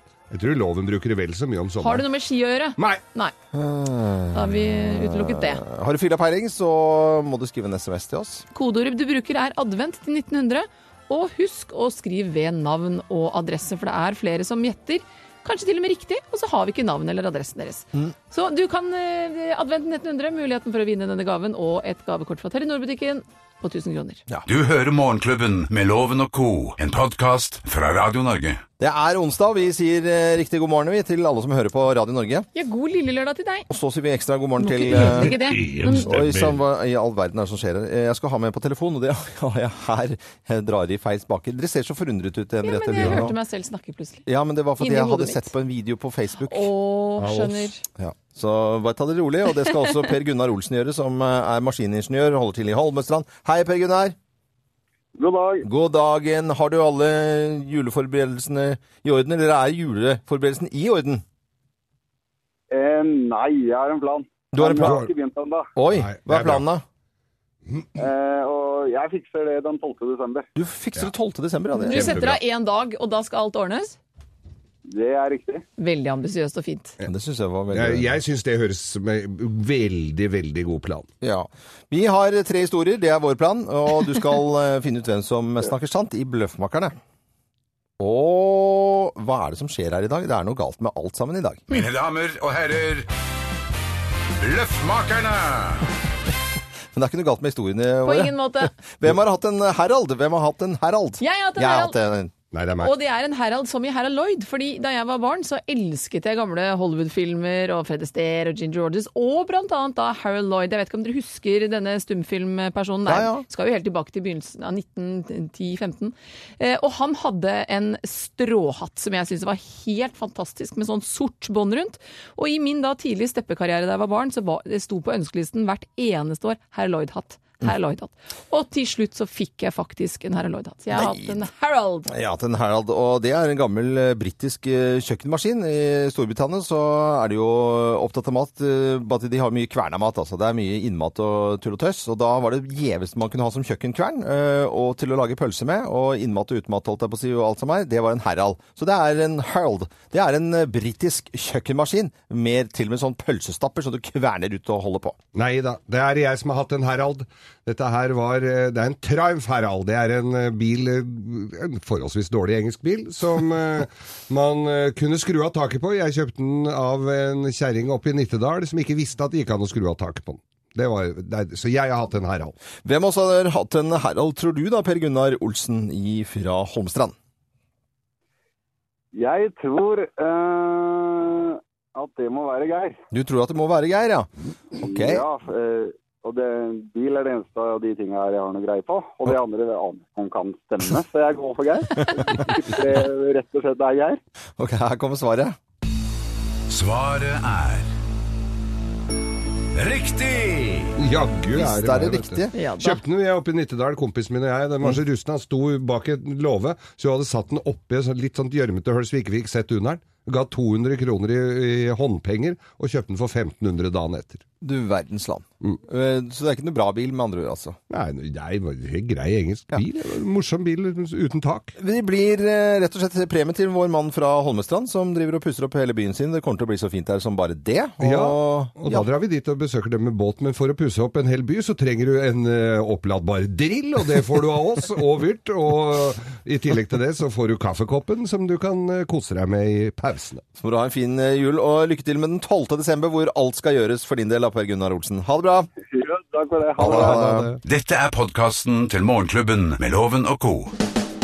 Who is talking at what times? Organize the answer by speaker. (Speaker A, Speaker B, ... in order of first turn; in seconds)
Speaker A: 0.3-2.1, 2.8-3.0, 43.0-43.3, 47.2-47.7, 64.8-65.1, 65.9-66.7, 71.9-72.4, 77.7-81.1, 102.5-102.9, 155.3-172.6, 201.0-214.4, 217.9-221.8, 228.0-240.4, 246.8-247.6
Speaker B: 1.8-3.3, 4.3-5.6, 8.5-24.2, 32.5-33.7, 34.6-36.1, 42.6-44.3, 44.8-45.5, 46.5-47.8, 71.8-74.0, 75.8-77.0, 98.0-98.7, 101.2-102.0, 102.8-132.1, 202.5-203.0
Speaker C: 3.5-8.5, 28.8-32.5, 33.7-43.4, 44.3-46.7, 48.0-54.2, 55.6-61.2, 64.5-65.1, 65.8-66.8, 70.6-72.4, 77.0-78.2, 81.2-87.0, 88.0-91.7, 96.9-102.3, 113.1-113.5, 130.9-131.4, 132.1-155.2, 172.8-177.2, 183.1-184.3, 184.8-185.2, 192.0-192.3, 194.6-195.6, 201.5-202.6, 214.6-217.8, 221.8-229.1, 240.6-245.7, 246.8-247.5
Speaker D: 24.5-28.6, 35.5-36.5, 91.7-93.1, 94.4-95.9, 196.7-197.9, 199.8-201.0, 247.7-250.7
Speaker E: 55.2-55.7, 62.7-65.7, 68.0-70.5, 74.9-75.7, 179.1-183.0, 184.8-194.2, 245.8-247.3